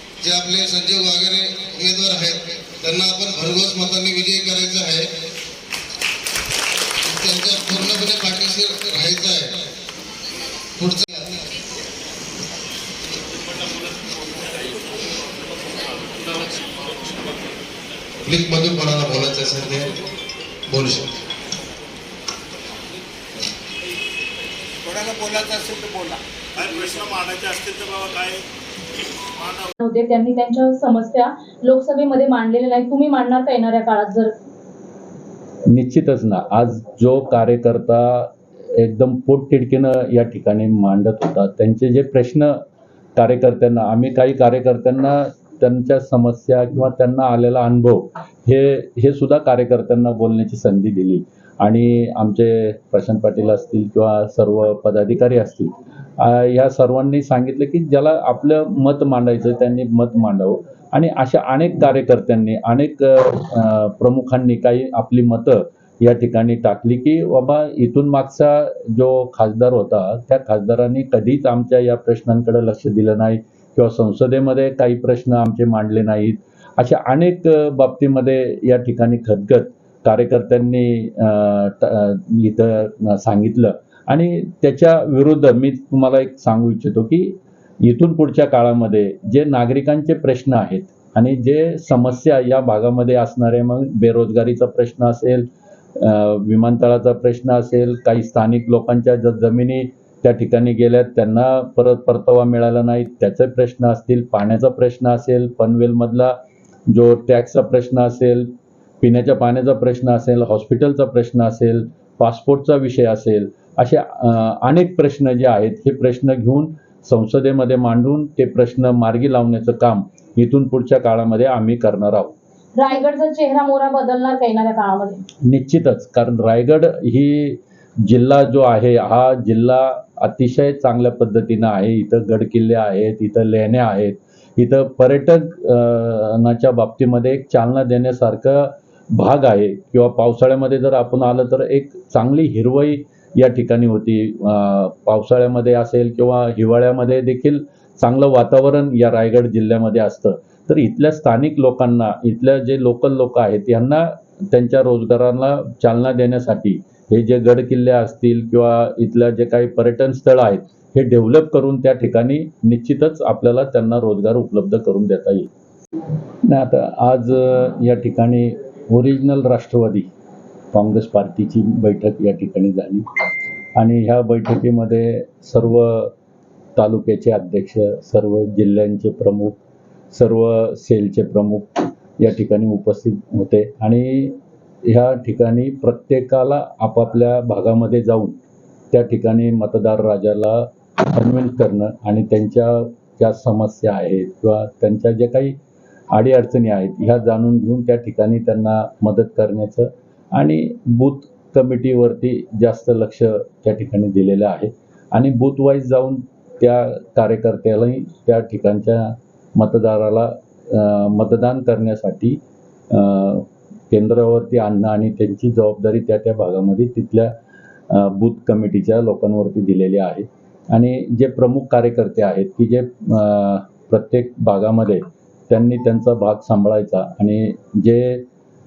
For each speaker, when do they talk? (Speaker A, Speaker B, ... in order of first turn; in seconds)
Speaker A: 0.2-5.1, 7.0-9.6, 10.8-11.4, 18.2-19.9, 20.7-21.1
Speaker B: 13.4-14.9, 15.9-17.3, 26.6-28.4, 29.4-29.7
Speaker C: 24.9-27.0
Speaker D: 29.8-34.3, 122.8-125.2
Speaker E: 35.7-42.6, 43.2-106.4, 106.9-108.5, 109.0-122.3, 125.4-165.5, 166.4-170.1, 170.7-173.1, 173.8-176.1, 176.8-179.6, 180.1-188.4, 188.9-195.6, 196.1-212.4, 212.9-217.3, 217.9-228.2